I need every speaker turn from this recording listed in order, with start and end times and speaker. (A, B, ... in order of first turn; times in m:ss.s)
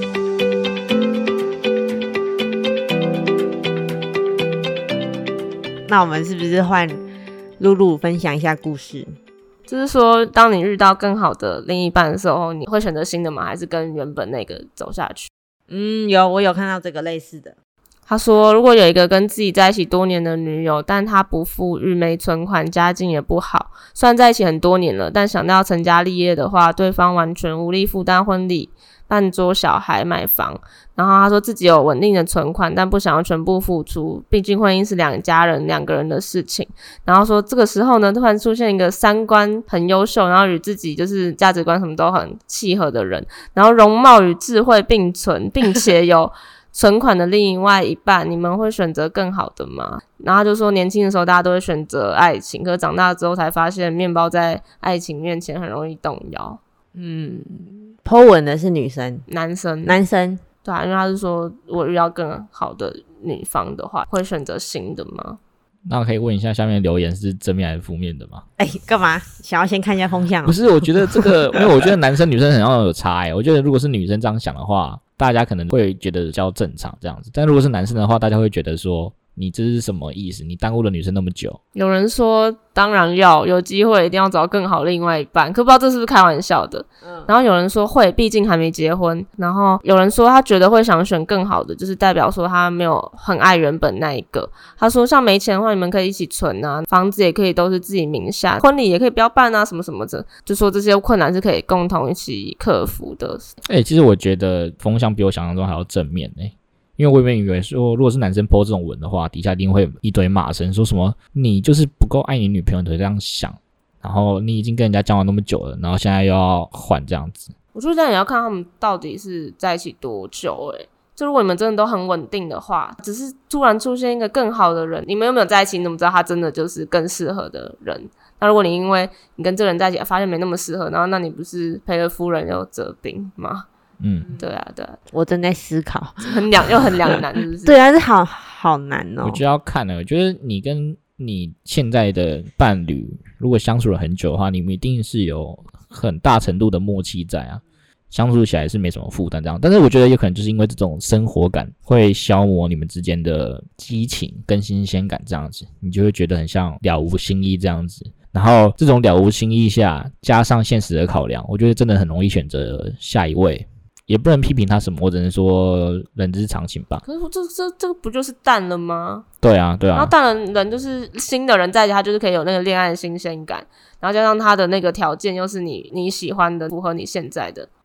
0:05.9-0:07.0 A
0:07.6-0:09.1 A
0:09.7-0:15.3 B
0:15.7-0:17.5 A
0:18.0-0:56.6 B
0:57.0-0:59.2 A
0:59.3-1:00.0 B
0:59.8-1:00.4 A
1:00.6-1:05.4 B
1:05.9-1:08.4 C
1:08.6-1:11.3 A
1:10.4-1:21.6 C
1:21.7-1:43.5 B
1:43.7-1:57.5 C
1:57.7-2:13.7 B
2:14.0-2:14.4 C
2:14.4-2:15.0 B
2:15.1-2:16.3 A
2:16.2-2:17.8 B
2:17.6-2:19.4 A
2:19.2-2:47.0 C
2:47.0-2:49.2 B
2:49.4-2:50.1 C
2:49.9-2:57.7 B